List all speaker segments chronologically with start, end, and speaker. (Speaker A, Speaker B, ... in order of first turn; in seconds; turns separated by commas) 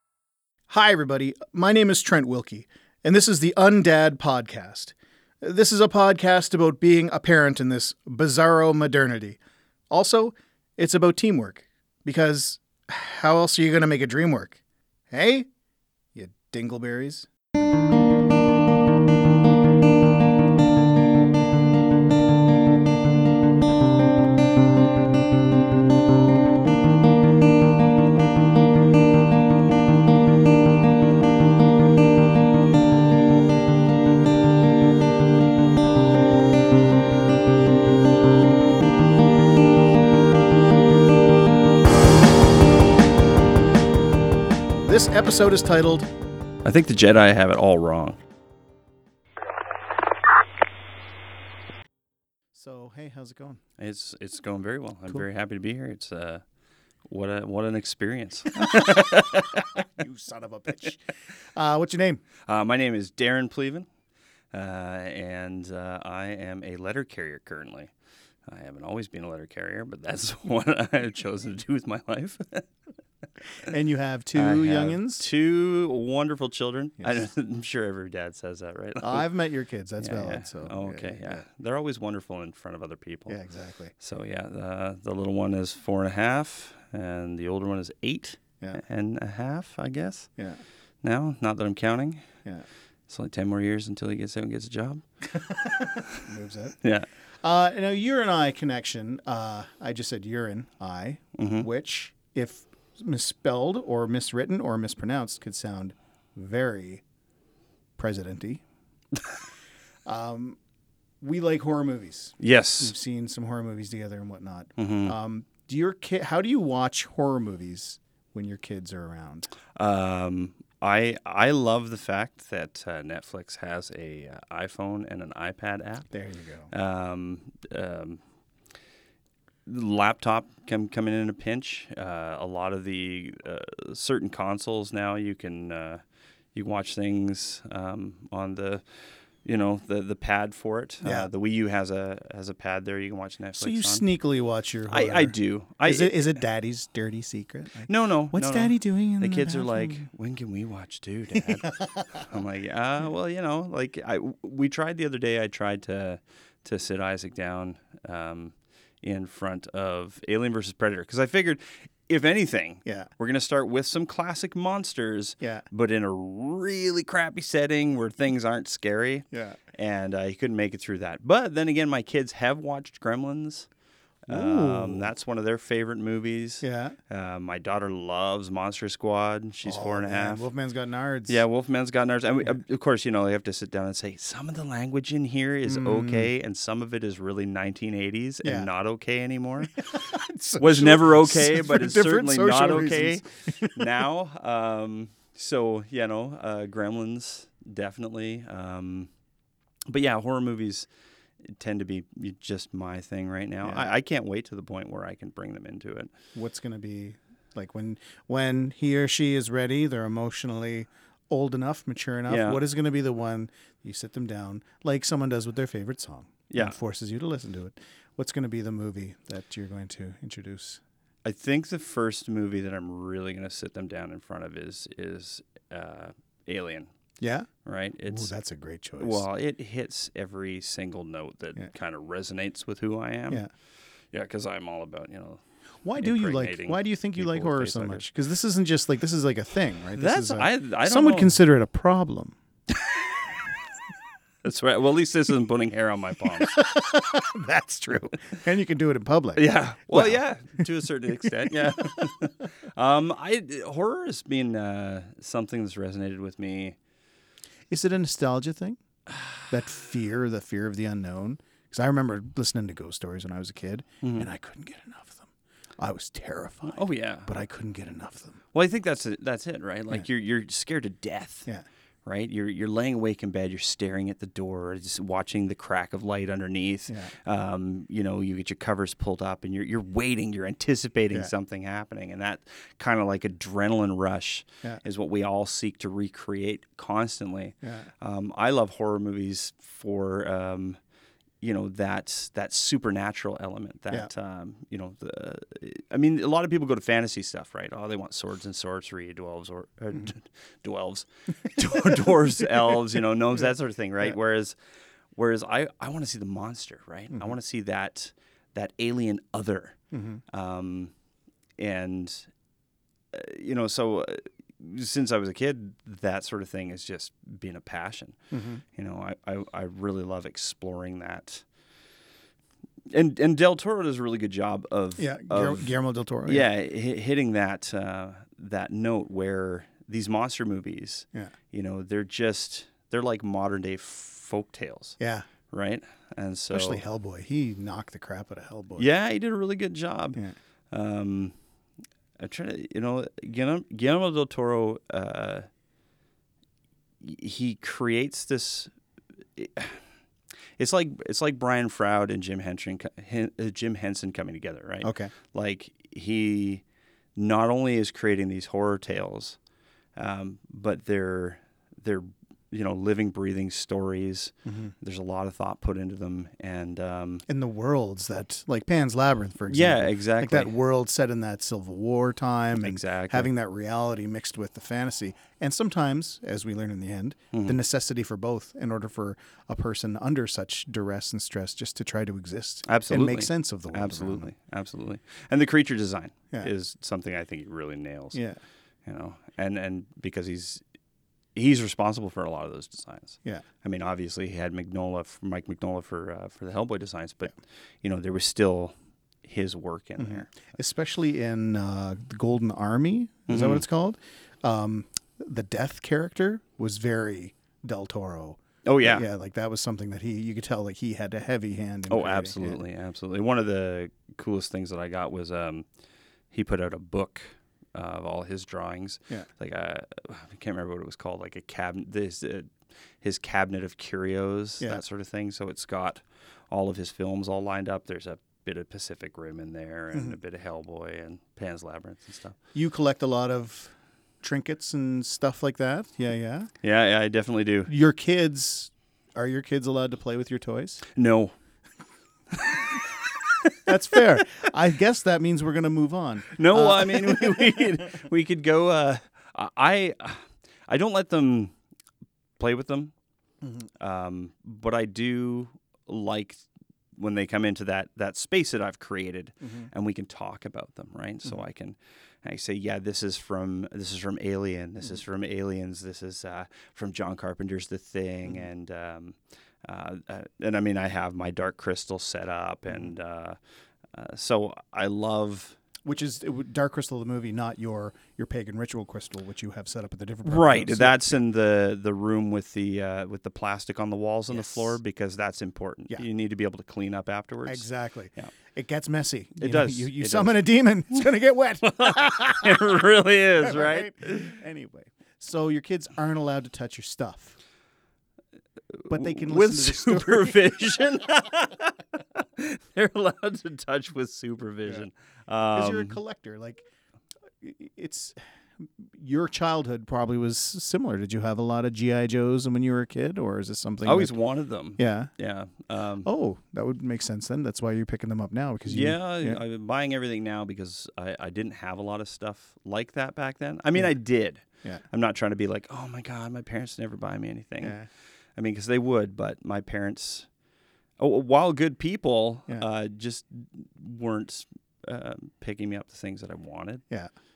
Speaker A: 0.7-9.4, Speaker A: 9.9-15.5, Speaker A: 16.1-17.3, Speaker A: 44.8-46.1, Speaker B: 46.6-48.2, Speaker A: 52.5-53.6, Speaker B: 53.8-56.4, Speaker B: 57.1-59.6, Speaker A: 58.6-59.0, Speaker A: 59.7-61.0, Speaker A: 61.5-62.2, Speaker B: 62.5-63.9, Speaker B: 64.5-67.9, Speaker B: 68.5-72.7, Speaker A: 73.6-75.2, Speaker B: 74.3-79.3, Speaker A: 79.0-81.4, Speaker B: 80.0-83.4, Speaker A: 83.3-83.9, Speaker B: 84.0-90.3, Speaker B: 91.0-92.3, Speaker B: 93.1-95.0, Speaker A: 95.2-96.8, Speaker B: 96.8-97.1, Speaker A: 97.4-107.0, Speaker B: 101.4-101.7, Speaker A: 108.0-108.6, Speaker A: 110.0-110.6, Speaker A: 111.2-119.5, Speaker B: 112.4-112.9, Speaker B: 114.8-115.1, Speaker B: 119.7-126.1, Speaker A: 126.1-126.7, Speaker B: 126.7-128.2, Speaker B: 129.7-136.0, Speaker B: 136.5-138.8, Speaker B: 139.4-144.0, Speaker A: 141.0-141.3, Speaker A: 143.6-150.1, Speaker B: 144.9-146.3, Speaker B: 147.9-173.7, Speaker A: 151.3-152.2, Speaker A: 165.4-165.7, Speaker A: 169.3-169.6, Speaker B: 174.2-180.4, Speaker A: 174.3-175.1, Speaker A: 176.6-176.9, Speaker A: 179.6-181.4, Speaker B: 181.3-190.0, Speaker A: 185.7-186.3, Speaker A: 188.4-188.7, Speaker A: 189.8-193.9, Speaker B: 190.6-199.1, Speaker B: 199.9-200.9, Speaker B: 201.4-206.1, Speaker A: 203.6-203.9, Speaker A: 206.3-220.8, Speaker B: 212.3-212.6, Speaker B: 216.5-216.8, Speaker B: 221.2-226.9, Speaker A: 227.2-227.5, Speaker B: 227.6-228.3, Speaker A: 228.1-229.2, Speaker B: 229.0-233.4, Speaker B: 234.1-235.4, Speaker A: 235.8-242.3, Speaker B: 236.0-238.1, Speaker B: 239.9-241.4, Speaker B: 242.7-243.2, Speaker B: 244.4-246.6, Speaker A: 246.4-250.7, Speaker B: 249.3-256.8, Speaker A: 257.7-258.8, Speaker A: 259.5-268.4, Speaker B: 264.0-264.3, Speaker B: 266.7-267.3, Speaker B: 268.5-271.5, Speaker B: 272.0-290.8, Speaker A: 287.6-287.9, Speaker B: 291.4-304.6, Speaker A: 301.6-302.2, Speaker B: 305.1-309.8, Speaker A: 309.9-310.2, Speaker B: 310.3-310.9, Speaker B: 311.6-312.3, Speaker B: 313.1-318.2, Speaker A: 318.3-318.6, Speaker B: 318.7-321.4, Speaker B: 322.9-325.7, Speaker A: 325.0-326.4, Speaker B: 326.2-335.0, Speaker A: 335.0-335.3, Speaker B: 335.5-336.8, Speaker A: 336.5-338.9, Speaker B: 338.8-340.2, Speaker B: 340.7-341.3, Speaker B: 342.2-345.5, Speaker B: 347.0-348.7, Speaker B: 349.4-349.8, Speaker B: 350.6-356.6, Speaker A: 354.8-355.1, Speaker B: 357.1-359.4, Speaker B: 359.9-367.2, Speaker A: 364.4-364.7, Speaker A: 367.3-384.3, Speaker B: 369.5-370.5, Speaker B: 372.6-373.3, Speaker B: 377.3-377.6, Speaker B: 382.6-388.2, Speaker A: 388.1-388.4, Speaker B: 388.8-390.6, Speaker B: 391.3-400.3, Speaker A: 400.0-412.6, Speaker B: 403.3-403.6, Speaker B: 408.6-409.1, Speaker B: 411.9-415.6, Speaker B: 416.3-432.4, Speaker A: 432.5-436.5, Speaker B: 436.6-437.7, Speaker A: 437.7-440.8, Speaker B: 440.9-441.3, Speaker B: 442.3-443.7, Speaker A: 443.6-447.6, Speaker B: 446.3-451.5, Speaker B: 452.4-452.9, Speaker B: 453.8-456.4, Speaker B: 456.9-473.4, Speaker A: 459.4-459.7, Speaker B: 473.9-475.6, Speaker A: 475.8-481.0, Speaker B: 480.2-488.3, Speaker A: 484.3-484.8, Speaker A: 487.4-497.4, Speaker B: 489.4-490.5, Speaker B: 491.6-494.3, Speaker B: 498.8-506.0, Speaker A: 498.9-500.4, Speaker A: 505.5-506.6, Speaker A: 507.4-514.1, Speaker B: 513.8-516.1, Speaker A: 514.8-515.1, Speaker A: 516.0-519.4, Speaker B: 518.7-527.8, Speaker A: 527.6-527.9, Speaker B: 528.4-530.3, Speaker B: 531.0-536.8